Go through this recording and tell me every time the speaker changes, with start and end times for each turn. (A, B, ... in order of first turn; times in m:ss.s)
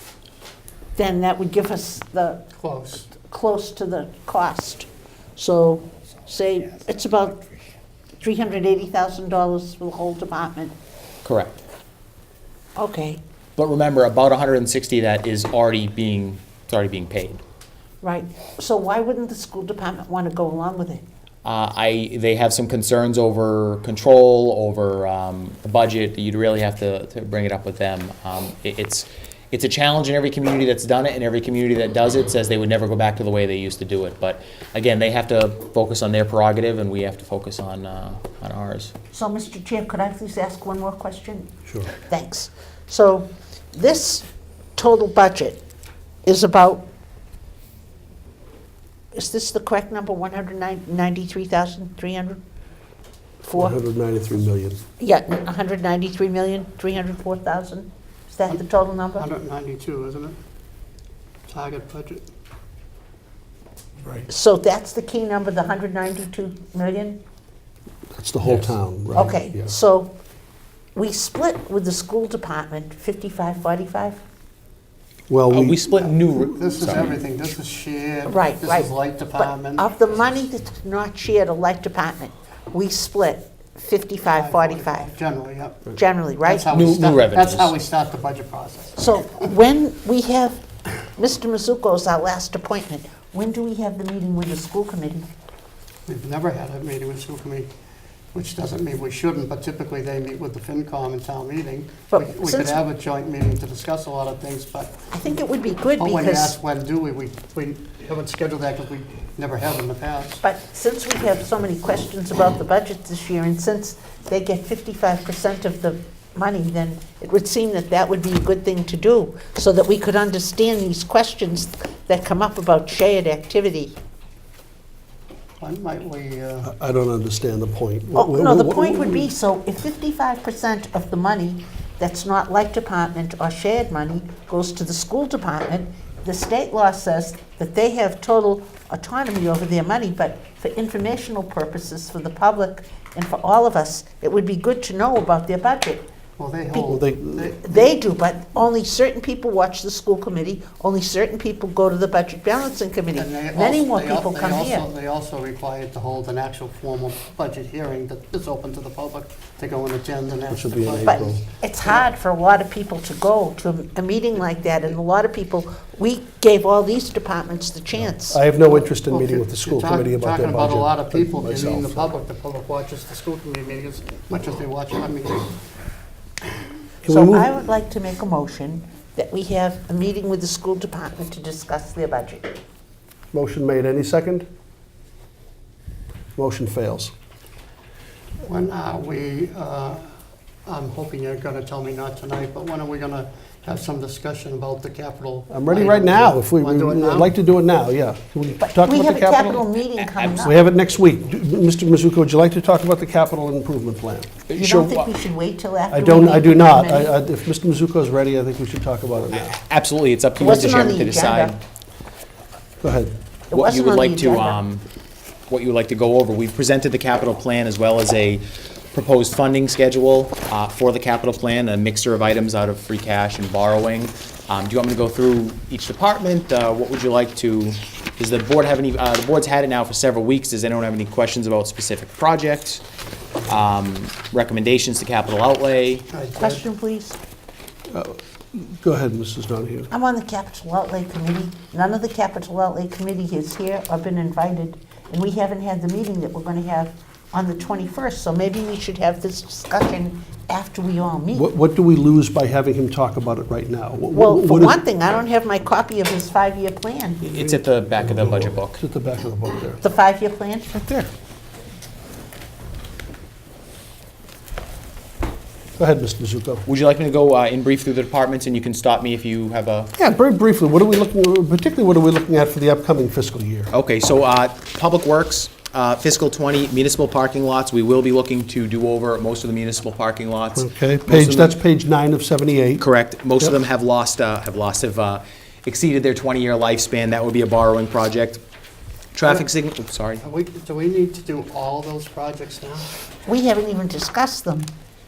0:01.0-0:02.4 A
0:02.6-0:03.1 B
0:03.1-0:07.4 A
0:08.2-0:10.8 A
0:11.2-0:11.6 C
0:12.8-0:13.2 A
0:13.6-0:17.4 C
0:18.0-0:21.0 A
0:21.4-0:38.9 C
0:39.1-0:45.6 A
0:41.7-0:41.9 D
0:46.2-0:46.8 A
0:49.1-0:52.4 A
0:53.4-0:53.8 A
0:53.5-0:54.8 D
0:55.0-0:59.3 A
0:59.2-1:00.4 B
1:01.5-1:02.3 B
1:04.3-1:07.2 A
1:08.1-1:09.7 D
1:08.4-1:08.8 C
1:09.1-1:10.1 A
1:11.0-1:14.2 A
1:15.3-1:15.8 D
1:15.5-1:17.2 C
1:16.5-1:19.9 B
1:18.3-1:25.1 A
1:24.3-1:29.0 B
1:25.9-1:26.7 A
1:26.7-1:27.7 C
1:29.0-1:30.6 A
1:31.2-1:35.3 A
1:36.1-1:37.7 B
1:38.3-1:45.1 B
1:42.1-1:42.8 A
1:45.1-1:46.6 A
1:46.0-1:50.4 B
1:50.4-2:04.0 A
2:05.6-2:06.7 B
2:06.6-2:09.3 D
2:08.2-2:26.1 A
2:26.4-2:27.9 B
2:26.8-2:27.5 D
2:27.6-2:34.9 A
2:33.1-2:41.3 B
2:40.5-2:41.4 D
2:41.0-2:48.4 A
2:48.1-2:52.1 D
2:48.8-2:55.5 B
2:57.0-2:57.6 D
2:57.0-3:02.6 A
3:03.3-3:04.5 D
3:06.4-3:07.1 D
3:08.5-3:10.1 B
3:10.7-3:17.3 B
3:15.5-3:19.6 D
3:18.6-3:20.7 A
3:20.0-3:20.4 C
3:20.4-3:24.9 D
3:24.5-3:25.0 C
3:24.6-3:27.1 A
3:25.9-3:29.6 D
3:29.3-3:31.6 C
3:30.4-3:31.6 A
3:32.8-3:33.2 D
3:33.5-3:34.6 A
3:33.5-3:34.8 C
3:35.5-3:52.8 C
3:53.4-3:56.1 C
3:56.1-3:56.6 B
3:56.4-3:57.2 A
3:57.9-3:59.9 D
3:59.9-4:11.5 A
4:11.3-4:14.8 D
4:14.1-4:17.2 A
4:17.2-4:18.8 C
4:17.3-4:19.8 D
4:19.8-4:21.0 A
4:25.8-4:26.7 D
4:26.7-4:29.9 C
4:30.0-4:33.7 D
4:33.7-4:41.6 C
4:40.6-4:42.9 D
4:42.8-4:48.4 C
4:49.2-4:50.2 C
4:49.2-4:49.5 B
4:50.2-4:52.9 B
4:53.3-4:54.7 A